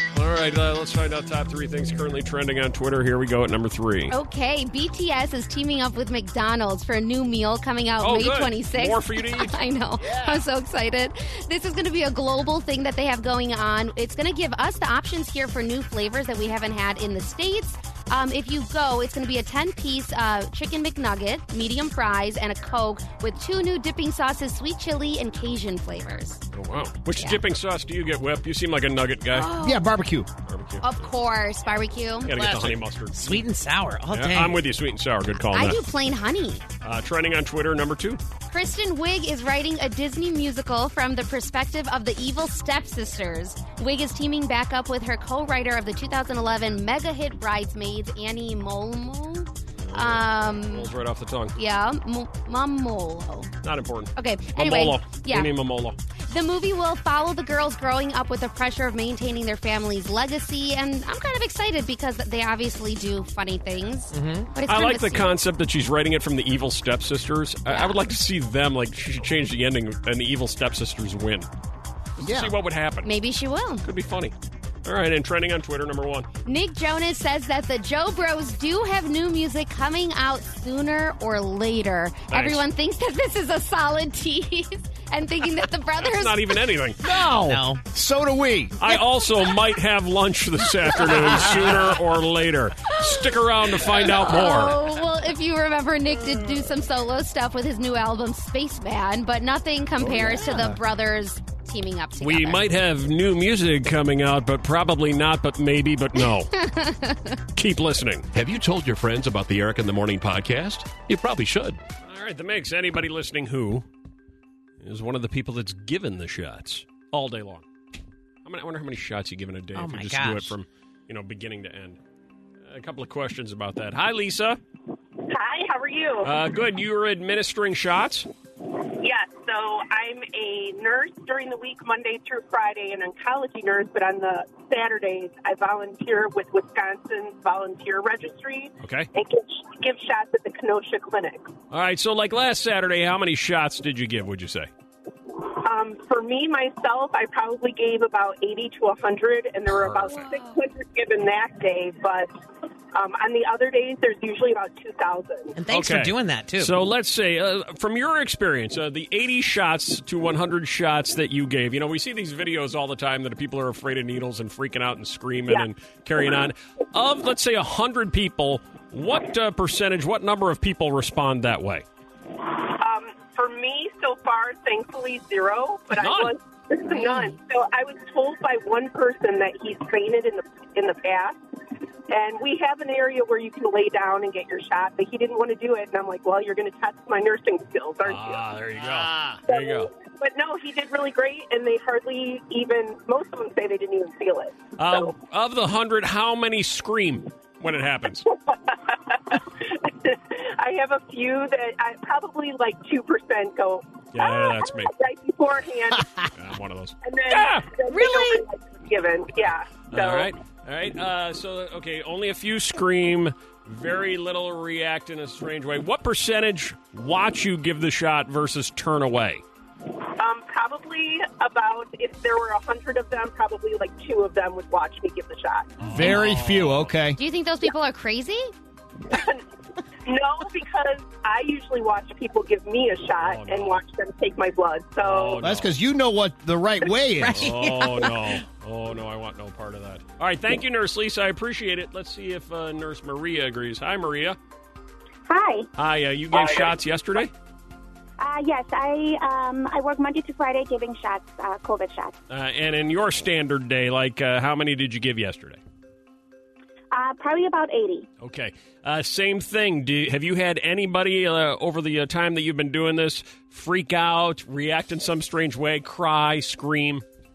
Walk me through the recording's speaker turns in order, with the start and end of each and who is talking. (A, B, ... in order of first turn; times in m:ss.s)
0:00.1-0:04.1 A
0:04.1-0:26.4 B
0:08.0-0:09.6 A
0:10.0-0:10.5 C
0:26.5-0:29.5 A
0:27.2-0:27.4 B
0:29.3-0:29.9 B
0:29.6-0:30.3 C
0:30.5-0:31.1 A
0:30.8-0:32.3 B
0:32.2-0:33.4 A
0:32.3-0:32.8 C
0:33.1-0:34.6 D
0:34.1-0:35.8 A
0:35.5-0:36.6 B
0:36.8-0:38.2 A
0:38.5-0:50.9 B
0:49.8-0:51.6 A
0:51.6-0:53.5 B
0:53.6-0:56.0 A
0:54.2-0:55.5 B
0:56.3-1:05.3 B
1:04.1-1:04.5 D
1:04.7-1:11.5 A
1:07.7-1:08.0 B
1:12.2-1:13.1 A
1:12.2-1:12.6 C
1:13.0-1:13.9 B
1:13.8-1:16.3 A
1:16.4-1:26.6 B
1:22.3-1:22.6 A
1:26.0-1:27.0 A
1:27.0-1:28.8 C
1:27.4-1:27.8 D
1:28.8-1:34.8 A
1:31.0-1:32.0 C
1:32.9-1:42.6 B
1:40.0-1:40.8 C
1:40.1-1:40.4 A
1:42.2-1:46.5 A
1:46.5-1:47.4 B
1:47.6-1:48.3 A
1:48.3-1:51.8 E
1:52.0-1:53.9 A
1:54.8-1:57.7 A
1:58.4-2:02.0 A
1:59.8-2:00.6 D
2:02.7-2:04.6 A
2:05.3-2:06.3 F
2:06.2-2:08.3 A
2:08.7-2:21.5 F
2:18.8-2:19.1 A
2:21.7-2:24.7 A
2:25.4-2:32.3 F
2:29.7-2:30.2 A
2:30.2-2:30.5 B
2:32.9-2:35.6 F
2:35.6-2:36.7 D
2:35.7-2:51.8 A
2:52.3-3:08.5 F
2:55.9-2:56.3 A
2:56.9-2:57.4 B
3:08.0-3:09.9 A
3:08.8-3:09.4 C
3:09.5-3:15.2 F
3:14.8-3:18.3 A
3:18.3-3:26.2 F
3:24.1-3:24.9 A
3:26.4-3:27.7 A
3:27.0-3:30.3 F
3:27.9-3:28.4 D
3:29.9-3:39.4 A
3:39.9-3:45.9 F
3:45.8-3:46.9 A
3:45.9-3:47.2 C
3:47.2-3:48.5 B
3:49.1-3:49.4 F
3:50.0-3:55.5 F
3:53.2-3:53.8 A
3:55.0-3:55.7 A
3:55.4-3:57.5 C
3:57.2-3:58.4 D
3:57.3-4:04.4 A
4:05.3-4:05.7 G
4:05.8-4:07.3 A
4:08.2-4:12.2 G
4:12.3-4:15.6 A
4:16.9-4:18.1 G
4:18.2-4:27.0 A